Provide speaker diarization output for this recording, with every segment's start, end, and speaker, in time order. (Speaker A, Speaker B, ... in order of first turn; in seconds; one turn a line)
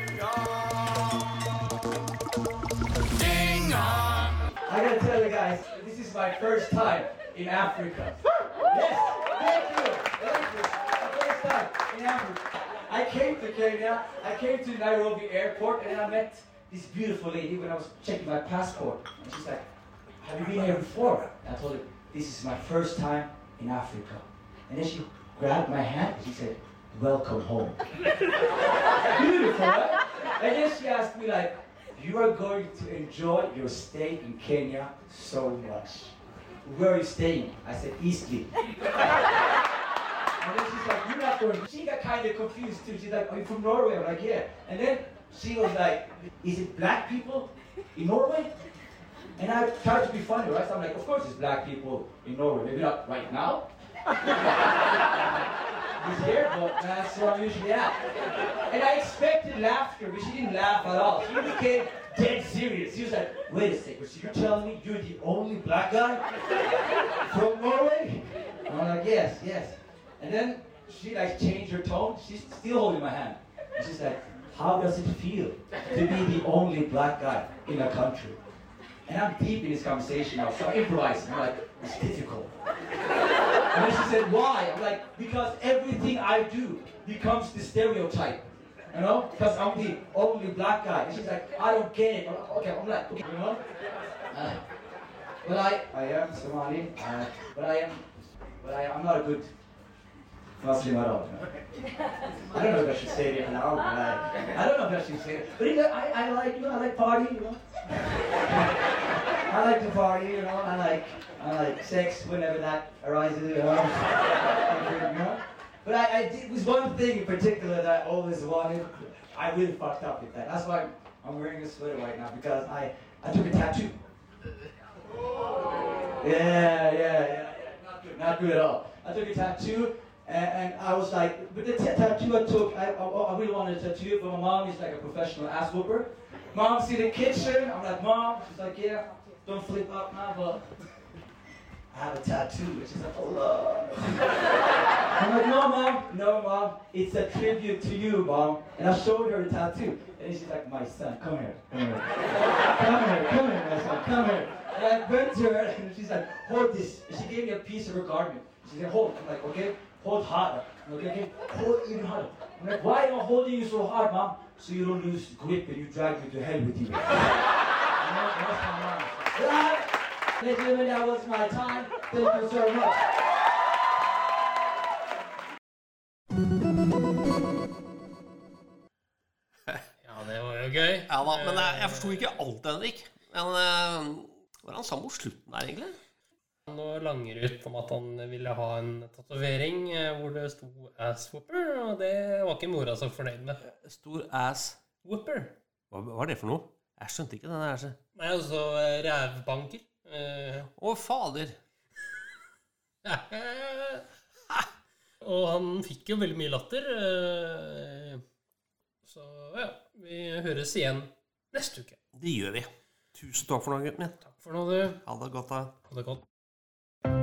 Speaker A: 4.7-19.6
Speaker A: 20.2-27.9
Speaker A: 29.1-38.5
Speaker A: 40.4-48.5
Speaker A: 49.4-53.6
Speaker A: 55.0-58.0
Speaker A: 58.7-66.3
Speaker A: 67.2-78.4
Speaker A: 79.1-82.5
Speaker A: 83.7-93.6
Speaker A: 94.3-94.6
Speaker A: 95.4-99.5
Speaker A: 100.6-101.5
Speaker A: 102.5-107.7
Speaker A: 108.4-108.8
Speaker A: 109.5-124.0
Speaker A: 126.2-140.7
Speaker A: 141.9-144.4
Speaker A: 145.2-167.3
Speaker A: 168.0-173.1
Speaker B: 180.0-182.3
Speaker C: 181.1-186.0
Speaker B: 186.7-193.6
Speaker C: 193.6-194.8
Speaker B: 195.0-195.6
Speaker C: 195.9-198.0
Speaker B: 198.2-200.7
Speaker C: 200.8-201.6
Speaker B: 203.0-204.1
Speaker B: 205.2-208.2
Speaker B: 209.0-212.0
Speaker C: 212.1-214.2
Speaker B: 214.2-215.0
Speaker C: 214.9-215.8
Speaker B: 215.8-216.2